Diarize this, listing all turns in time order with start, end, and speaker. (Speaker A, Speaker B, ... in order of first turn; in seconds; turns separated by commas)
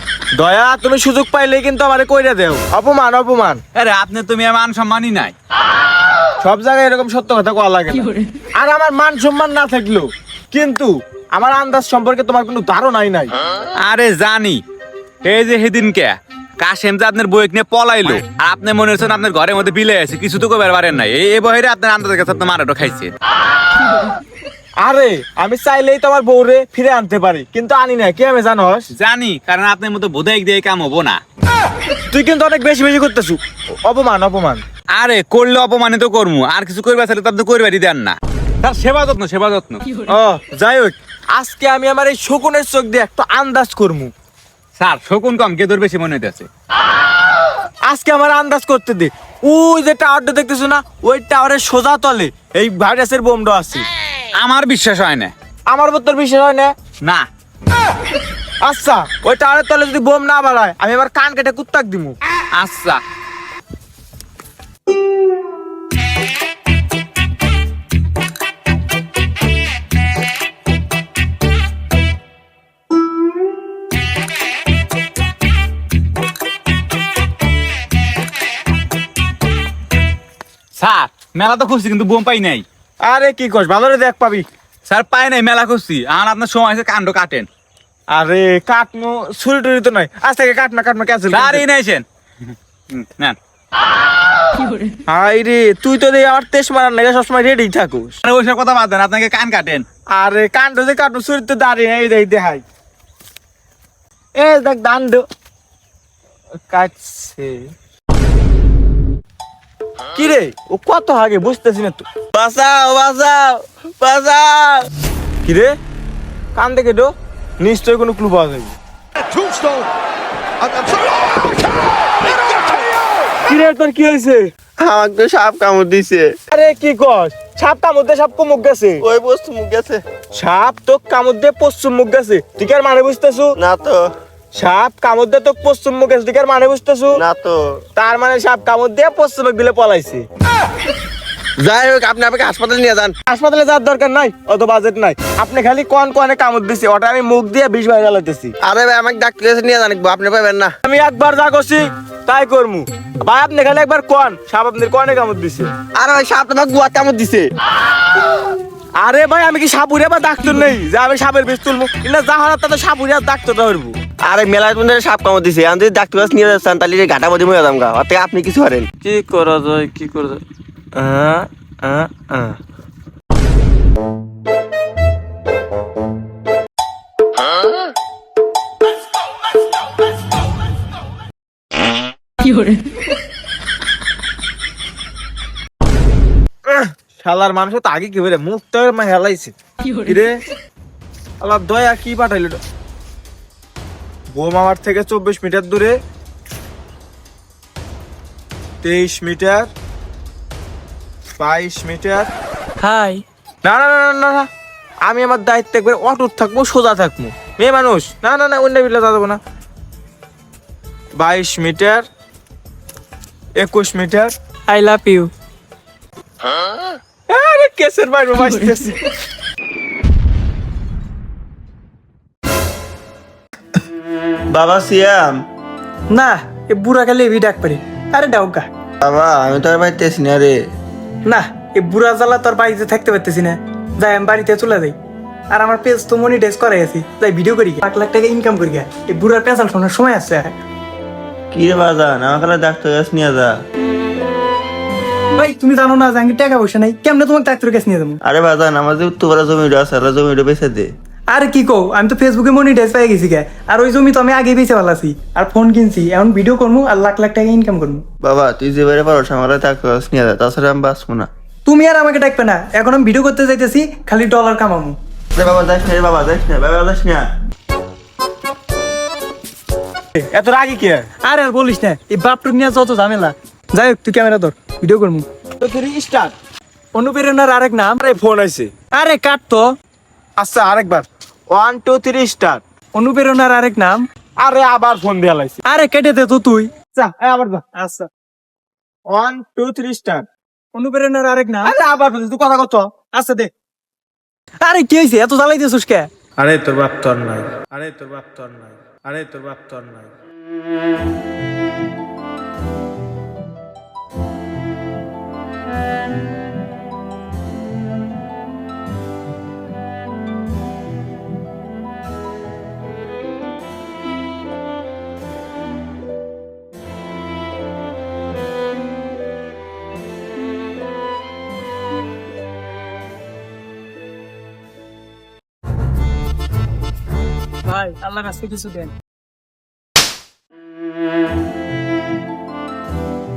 Speaker A: 0.3-3.6, Speaker B: 3.7-5.3, Speaker A: 6.4-13.3, Speaker B: 13.8-14.6, Speaker B: 15.2-23.1, Speaker A: 24.8-28.9, Speaker B: 28.9-31.2, Speaker A: 32.1-34.6, Speaker B: 34.9-39.9, Speaker A: 40.1-44.1, Speaker B: 44.8-46.5, Speaker A: 47.8-53.9, Speaker B: 54.3-55.3, Speaker A: 55.7-56.7, Speaker A: 58.6-62.2, Speaker B: 62.5-63.0, Speaker B: 80.8-82.6, Speaker A: 83.0-84.5, Speaker B: 84.9-87.5, Speaker A: 88.1-91.6, Speaker B: 91.3-92.0, Speaker B: 92.9-93.3, Speaker A: 95.1-98.1, Speaker B: 98.2-99.8, Speaker A: 100.1-102.6, Speaker A: 104.3-105.2, Speaker A: 106.7-107.7, Speaker A: 110.1-112.1, Speaker C: 112.3-114.9, Speaker A: 115.4-115.8, Speaker A: 116.5-118.8, Speaker A: 119.3-119.8, Speaker A: 123.4-124.5, Speaker C: 124.8-126.4, Speaker A: 126.5-129.0, Speaker C: 129.0-130.0, Speaker A: 130.3-133.6, Speaker C: 133.6-134.1, Speaker A: 134.5-137.2, Speaker C: 137.1-137.8, Speaker A: 137.9-140.2, Speaker C: 141.6-143.2, Speaker A: 143.2-148.5, Speaker C: 148.6-150.7, Speaker A: 150.8-155.7, Speaker C: 155.9-157.5, Speaker A: 159.0-163.9, Speaker C: 164.2-168.9, Speaker A: 169.2-169.5, Speaker A: 186.6-190.4, Speaker A: 191.4-192.6, Speaker A: 194.3-195.9, Speaker A: 198.8-199.7, Speaker A: 201.4-202.3, Speaker D: 202.8-203.2, Speaker A: 203.6-204.5, Speaker A: 205.0-209.4, Speaker A: 211.2-212.0, Speaker A: 213.6-214.3, Speaker D: 214.7-215.3, Speaker A: 217.3-219.0, Speaker C: 224.5-225.4, Speaker D: 226.1-228.7, Speaker C: 229.0-230.6, Speaker D: 231.2-234.9, Speaker D: 235.5-240.5, Speaker C: 241.5-243.5, Speaker D: 245.3-248.2, Speaker C: 248.2-250.9, Speaker D: 251.3-258.0, Speaker C: 258.2-261.3, Speaker D: 261.6-265.0, Speaker C: 265.3-267.3, Speaker A: 270.2-271.1, Speaker D: 271.2-275.2, Speaker A: 275.6-276.3, Speaker D: 276.9-278.0, Speaker A: 278.0-278.7, Speaker D: 278.9-279.7, Speaker A: 280.4-282.6, Speaker D: 282.9-284.0, Speaker A: 284.4-285.6, Speaker D: 285.6-286.7, Speaker A: 286.9-287.6, Speaker D: 287.7-288.1, Speaker A: 289.1-290.2, Speaker D: 290.7-291.7, Speaker A: 291.6-292.9, Speaker D: 293.1-293.5, Speaker D: 294.6-296.1, Speaker A: 296.4-300.1, Speaker D: 327.6-328.9